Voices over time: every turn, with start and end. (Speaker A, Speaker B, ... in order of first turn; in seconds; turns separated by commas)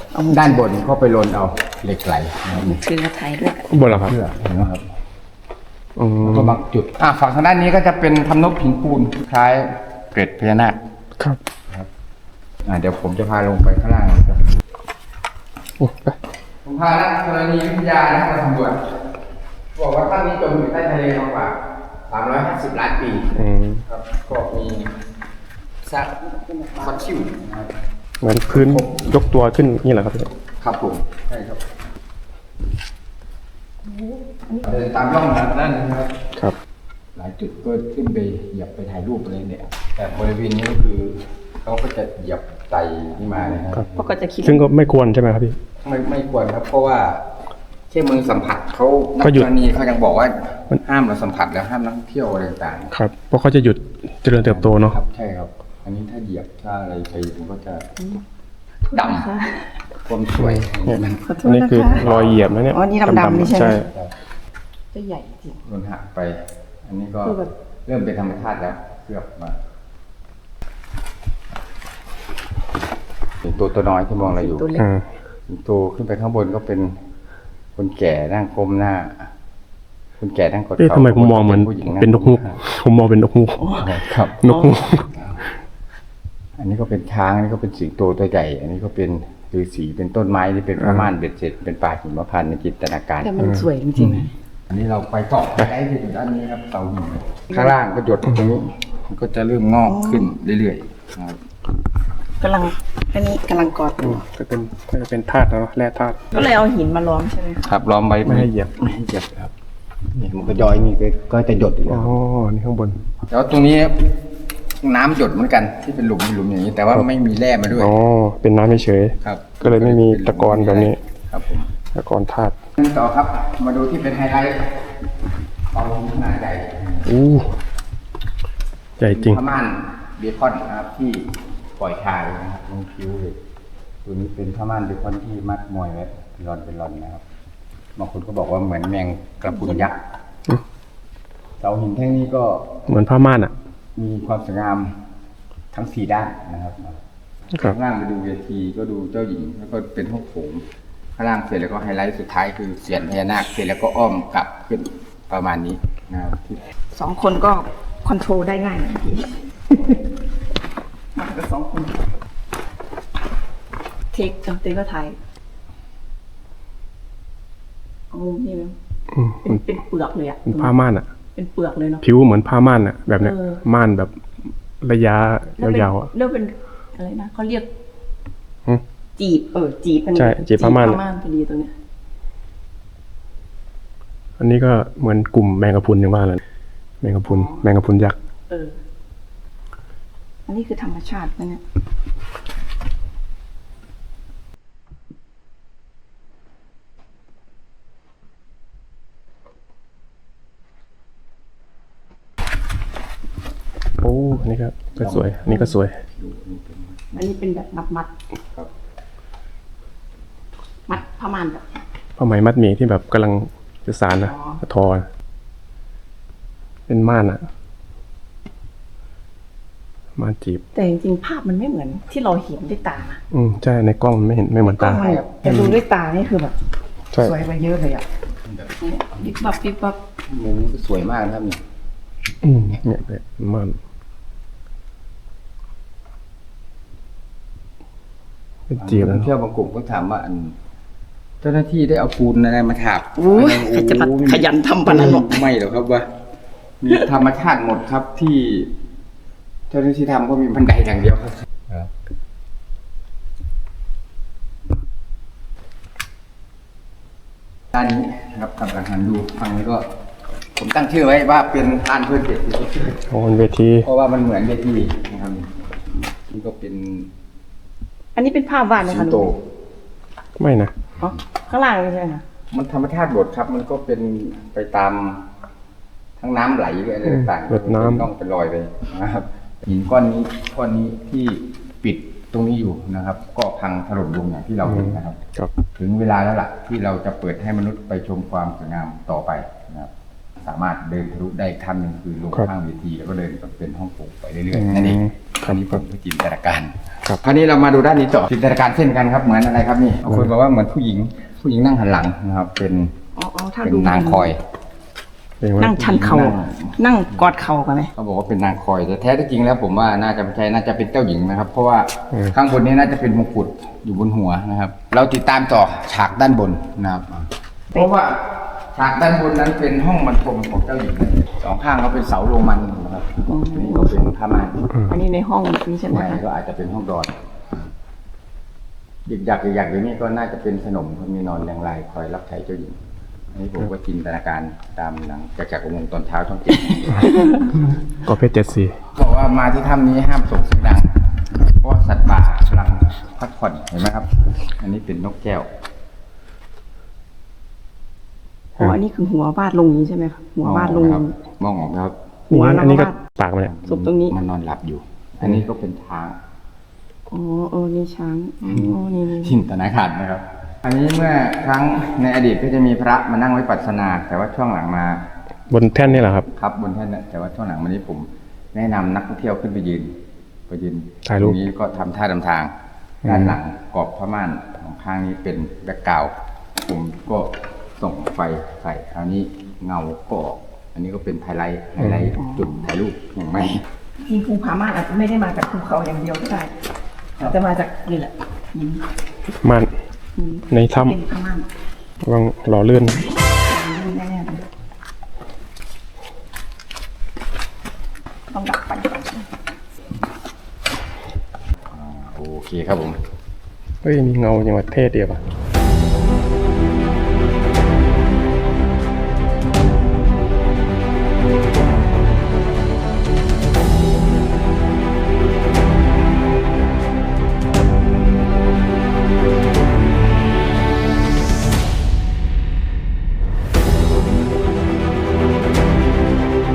Speaker A: 0.1-0.6, Speaker B: 0.3-2.8, Speaker A: 2.5-3.8, Speaker C: 3.7-4.1, Speaker B: 3.7-4.8, Speaker C: 6.0-6.6, Speaker B: 6.2-10.8, Speaker B: 12.6-14.6, Speaker C: 15.8-16.2, Speaker B: 16.6-18.8, Speaker B: 19.7-23.3, Speaker C: 23.3-23.8, Speaker B: 23.9-24.9, Speaker B: 25.8-26.1, Speaker A: 26.2-27.1, Speaker B: 26.8-27.7, Speaker C: 28.2-30.3, Speaker B: 28.5-28.9, Speaker B: 30.6-31.6, Speaker A: 33.9-34.7, Speaker B: 34.6-36.2, Speaker B: 37.1-44.0, Speaker A: 43.9-44.6, Speaker C: 44.4-45.6, Speaker B: 45.8-47.2, Speaker B: 47.9-52.9, Speaker C: 49.2-49.5, Speaker C: 52.9-55.0, Speaker B: 54.4-57.9, Speaker A: 58.9-59.8, Speaker B: 58.9-59.2, Speaker B: 60.0-61.3, Speaker C: 60.4-63.9, Speaker A: 61.2-62.0, Speaker B: 61.9-62.5, Speaker A: 62.7-63.9, Speaker B: 63.7-64.1, Speaker A: 64.9-65.6, Speaker B: 65.6-69.6, Speaker A: 67.2-67.5, Speaker B: 73.4-74.7, Speaker A: 74.2-74.9, Speaker C: 74.8-75.0, Speaker B: 75.5-77.0, Speaker B: 77.8-79.3, Speaker B: 80.2-82.6, Speaker C: 80.8-83.8, Speaker A: 83.6-83.9, Speaker B: 83.8-84.4, Speaker C: 84.4-85.1, Speaker A: 84.4-84.8, Speaker B: 86.6-93.3, Speaker C: 90.8-91.1, Speaker A: 93.2-94.3, Speaker B: 94.7-101.4, Speaker A: 99.8-100.3, Speaker A: 102.4-104.2, Speaker C: 104.0-106.4, Speaker A: 106.3-107.7, Speaker B: 107.6-109.5, Speaker C: 108.2-108.7, Speaker B: 110.1-112.2, Speaker C: 111.9-113.0, Speaker B: 113.3-114.1, Speaker B: 114.8-117.9, Speaker C: 117.7-121.0, Speaker B: 119.2-121.7, Speaker C: 121.9-122.6, Speaker B: 122.8-124.9, Speaker B: 125.7-127.1, Speaker C: 127.0-127.5, Speaker C: 129.0-129.4, Speaker B: 129.1-133.4, Speaker B: 134.0-137.2, Speaker B: 137.9-140.0, Speaker A: 139.5-139.9, Speaker B: 141.6-142.7, Speaker C: 142.9-143.5, Speaker B: 143.9-145.0, Speaker B: 145.7-147.0, Speaker B: 147.6-150.6, Speaker B: 151.2-156.6, Speaker A: 156.9-160.0, Speaker A: 161.1-162.0, Speaker A: 164.1-165.2, Speaker A: 168.1-168.8, Speaker C: 169.1-169.6, Speaker A: 169.4-170.7, Speaker C: 170.5-171.1, Speaker A: 171.3-172.0, Speaker C: 172.0-174.1, Speaker A: 173.2-173.6, Speaker C: 174.8-176.1, Speaker A: 175.6-177.7, Speaker A: 179.2-181.7, Speaker C: 180.2-181.0, Speaker C: 184.4-186.4, Speaker C: 187.0-188.2, Speaker A: 187.2-187.7, Speaker A: 188.5-188.8, Speaker A: 190.5-191.6, Speaker C: 204.0-206.0, Speaker B: 205.0-207.3, Speaker A: 207.1-208.1, Speaker A: 210.9-211.6, Speaker C: 212.2-215.1, Speaker A: 214.2-214.6, Speaker C: 216.9-217.5, Speaker C: 220.2-220.6, Speaker A: 220.7-223.2, Speaker C: 223.3-225.8, Speaker A: 224.6-226.6, Speaker A: 227.1-228.1, Speaker B: 228.4-229.3, Speaker A: 228.8-230.0, Speaker B: 230.3-231.6, Speaker C: 232.4-233.8, Speaker C: 238.7-239.3, Speaker B: 238.8-240.6, Speaker B: 241.4-246.1, Speaker A: 243.2-245.5, Speaker B: 246.8-248.7, Speaker B: 249.7-251.9, Speaker B: 257.7-259.9, Speaker B: 260.6-263.0, Speaker C: 263.1-263.9, Speaker B: 263.8-265.5, Speaker B: 266.3-267.1, Speaker A: 268.1-269.3, Speaker B: 268.8-269.4, Speaker C: 270.4-270.7, Speaker A: 271.0-272.2, Speaker B: 272.5-275.3, Speaker B: 276.2-285.2, Speaker C: 277.1-278.1, Speaker C: 284.7-285.5, Speaker B: 285.7-302.9, Speaker C: 294.5-295.8, Speaker A: 303.1-304.3, Speaker B: 303.6-304.4, Speaker C: 305.4-306.3, Speaker A: 305.6-307.9, Speaker B: 305.6-306.8, Speaker B: 307.9-324.7, Speaker A: 323.3-324.0, Speaker A: 324.8-326.2, Speaker B: 325.9-327.6, Speaker B: 329.1-332.8, Speaker B: 333.3-337.4, Speaker A: 337.0-337.4, Speaker C: 338.0-338.8, Speaker B: 338.9-345.5, Speaker A: 348.6-351.1, Speaker B: 350.4-351.9, Speaker A: 352.3-353.0, Speaker C: 352.3-353.5, Speaker B: 353.4-356.2, Speaker A: 353.6-354.1, Speaker A: 357.1-359.4, Speaker B: 358.4-365.1, Speaker C: 365.5-366.3, Speaker B: 365.8-369.9, Speaker B: 370.5-372.5, Speaker C: 371.1-371.4, Speaker C: 373.0-373.4, Speaker B: 373.0-383.6, Speaker C: 381.8-382.1, Speaker A: 382.1-382.4, Speaker A: 384.0-386.5, Speaker A: 387.2-388.8, Speaker C: 389.4-389.7, Speaker A: 390.1-391.5, Speaker C: 390.5-390.9, Speaker C: 392.0-393.0, Speaker A: 393.4-394.5, Speaker A: 398.3-399.3, Speaker B: 401.7-403.0, Speaker C: 403.8-405.2